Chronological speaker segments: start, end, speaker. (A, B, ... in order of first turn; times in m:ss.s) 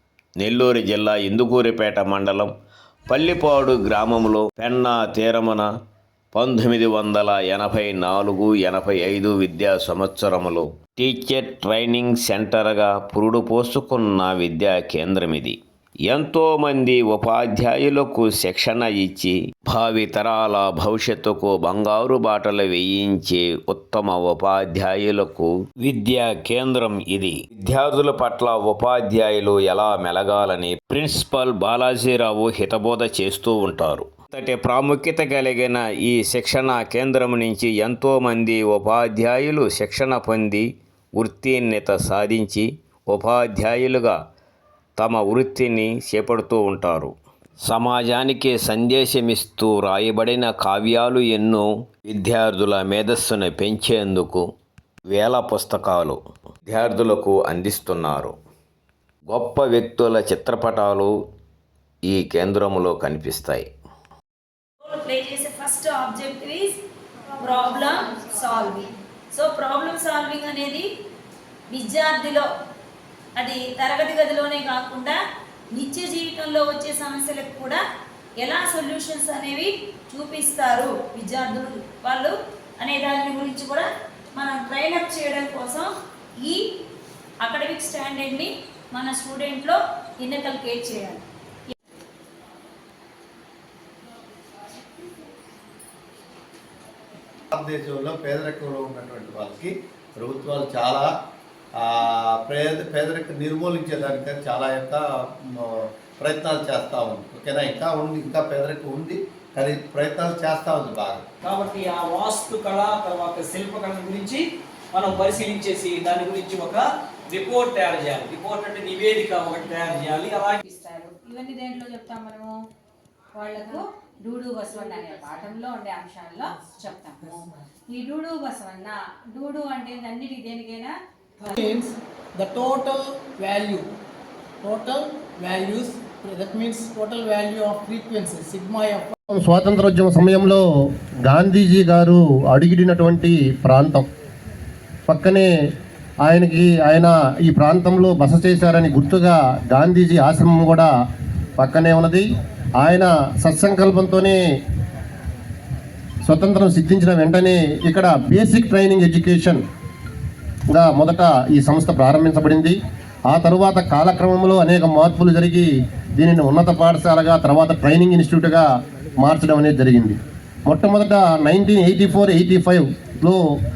0:00.4-0:02.5 A
0:03.1-0:05.7 A
0:06.3-0:40.6 A
0:41.2-0:44.2 A
0:45.0-0:54.5 A
0:55.1-0:58.3 A
0:59.3-1:01.1 A
1:02.0-1:03.7 A
1:04.8-1:06.8 B
1:07.4-1:10.8 B
1:11.7-1:12.4 B
1:13.4-1:15.2 B
1:15.8-1:17.8 B
1:18.4-1:25.9 B
1:27.4-1:31.2 B
1:37.5-1:41.1 C
1:41.8-1:51.2 C
1:51.4-2:00.6 D
2:00.6-2:02.5 E
2:03.4-2:11.6 E
2:11.4-2:13.9 F
2:14.6-2:19.1 F
2:19.3-2:20.6 G
2:21.3-2:24.0 G
2:25.1-2:25.5 G
2:26.2-2:30.9 G
2:31.6-2:32.3 G
2:32.8-2:34.4 G
2:36.2-2:39.6 G
2:40.7-2:42.8 G
2:43.3-2:48.6 G
2:49.2-2:53.4 G